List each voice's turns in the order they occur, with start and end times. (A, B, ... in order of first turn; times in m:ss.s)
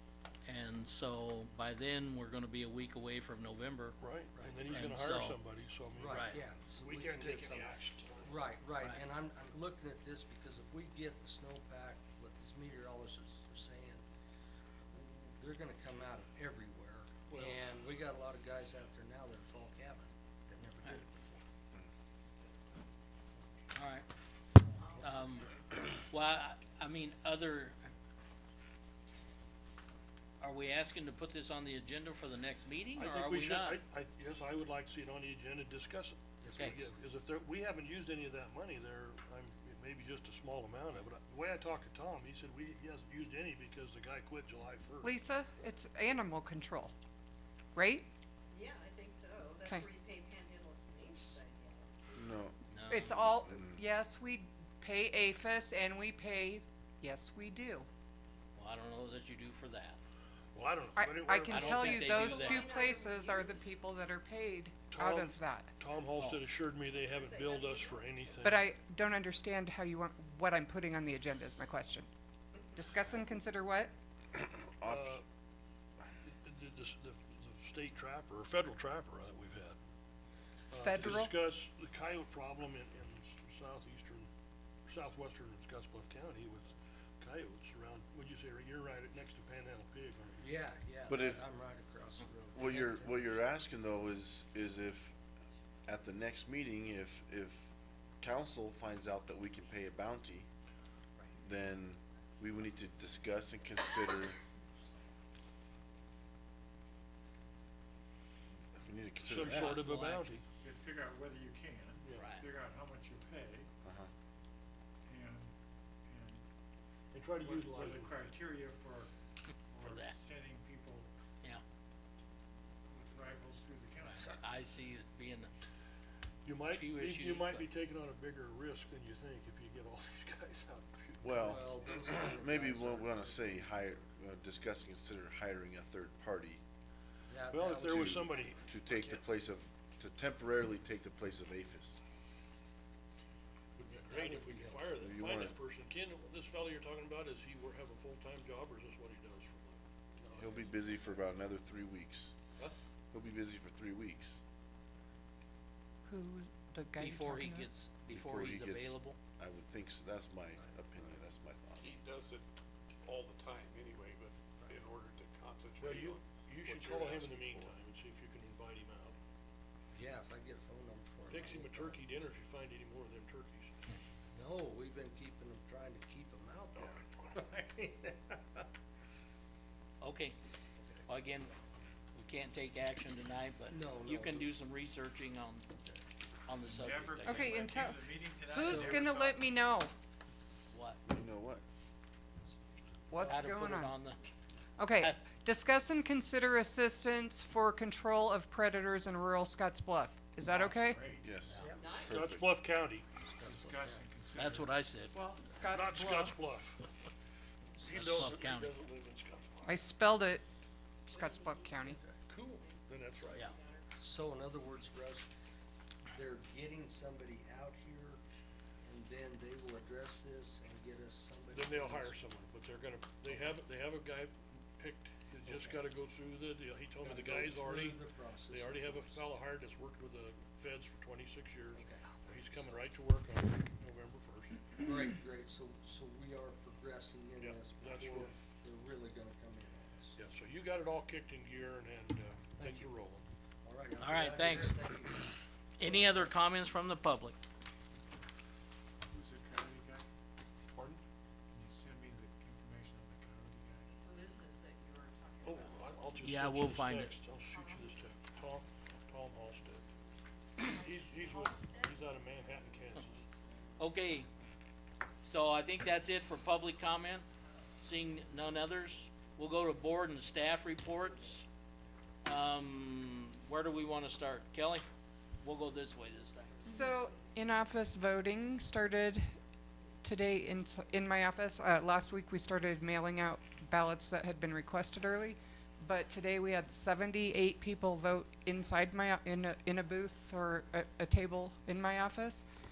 0:00.4-0:04.0 A
0:04.0-0:08.5 B
0:04.4-0:04.9 C
0:04.7-0:05.4 A
0:06.0-0:14.0 C
0:06.1-0:06.4 A
0:14.9-0:21.5 C
0:17.3-0:17.7 B
0:23.7-0:24.1 A
0:24.9-0:25.5 A
0:26.1-0:27.8 A
0:30.4-0:33.8 A
0:33.0-0:45.1 B
0:36.4-0:36.8 C
0:45.0-0:46.9 D
0:47.8-0:48.1 D
0:48.5-0:52.5 E
0:52.2-0:52.6 F
0:52.7-0:53.2 A
0:52.9-0:57.9 D
0:53.3-0:53.8 F
0:58.6-1:00.0 A
1:00.5-1:02.3 B
1:01.0-1:05.7 D
1:01.5-1:02.7 A
1:02.1-1:03.8 E
1:04.9-1:08.7 B
1:07.0-1:08.0 E
1:08.4-1:12.1 D
1:12.7-1:13.9 D
1:14.3-1:15.2 F
1:14.8-1:15.2 B
1:16.2-1:19.8 B
1:20.7-1:24.3 B
1:20.7-1:21.3 D
1:24.9-1:30.6 B
1:30.4-1:33.4 C
1:31.1-1:31.4 F
1:32.5-1:35.2 F
1:35.9-1:40.5 F
1:41.4-1:44.4 F
1:48.9-1:49.8 F
1:49.2-1:50.4 B
1:49.4-1:50.4 A
1:50.6-1:53.7 G
1:52.2-1:52.5 A
1:53.8-1:54.1 F
1:55.1-1:55.5 G
1:56.1-1:56.4 G
1:57.1-1:58.2 B
1:57.4-1:59.1 G
1:59.7-2:01.1 G
1:59.8-2:00.2 A
2:02.9-2:04.3 G
2:04.1-2:05.5 A
2:06.4-2:11.6 B
2:06.7-2:07.7 A
2:11.2-2:16.6 F
2:11.3-2:14.0 C
2:17.3-2:18.6 C
2:17.5-2:19.2 B
2:17.9-2:22.0 F
2:23.8-2:30.7 B
2:23.9-2:25.0 C
2:25.0-2:25.6 F
2:30.4-2:32.4 F
2:33.1-2:34.4 F
2:36.1-2:37.7 D
2:37.0-2:39.2 A
2:38.1-2:41.9 F
2:40.6-2:41.1 C
2:41.8-2:42.4 H
2:43.0-2:47.7 H
2:45.8-2:49.2 B
2:49.9-2:52.0 C
2:51.3-2:53.8 B
2:54.3-2:58.7 C
3:00.0-3:00.4 A
3:00.8-3:01.0 C
3:01.1-3:01.5 A
3:02.1-3:05.7 A
3:03.7-3:04.5 C
3:06.5-3:07.6 A
3:06.6-3:09.4 G
3:07.2-3:09.9 D
3:08.7-3:09.0 C
3:10.7-3:11.0 A
3:11.1-3:11.6 F
3:13.1-3:14.0 D
3:13.2-3:14.2 A
3:14.8-3:21.0 D
3:15.0-3:15.2 A
3:20.5-3:21.4 G
3:21.2-3:22.6 F
3:21.8-3:22.3 E
3:21.9-3:23.1 B
3:23.4-3:24.0 C
3:23.4-3:24.7 G
3:24.3-3:25.1 A
3:25.1-3:26.4 D
3:25.7-3:26.9 B
3:27.8-3:29.8 B
3:27.9-3:28.7 A
3:29.6-3:30.4 D
3:31.1-3:33.9 E
3:31.1-3:32.0 D
3:32.3-3:33.4 B
3:34.0-3:35.3 C
3:36.1-3:38.2 C
3:38.8-3:42.1 C
3:41.5-3:54.7 B
3:45.4-3:45.8 C
3:47.0-3:49.2 C
3:51.7-3:52.8 C
3:54.8-4:00.2 C
3:57.4-3:58.3 B
4:00.2-4:03.3 B
4:02.6-4:02.9 C
4:03.6-4:06.4 C
4:04.0-4:04.8 A
4:05.8-4:07.4 A
4:09.1-4:10.0 G
4:10.8-4:11.0 B
4:11.5-4:13.9 G
4:14.0-4:15.9 E
4:15.4-4:19.9 B
4:16.2-4:17.1 A
4:17.5-4:17.8 E
4:20.6-4:22.2 E
4:20.6-4:23.2 B
4:22.9-4:23.7 E
4:23.8-4:24.3 A
4:25.2-4:27.3 A
4:27.8-4:31.5 A
4:32.2-4:34.9 A
4:35.4-4:36.7 A
4:36.5-4:37.2 E
4:36.6-4:39.3 D
4:40.0-4:52.4 D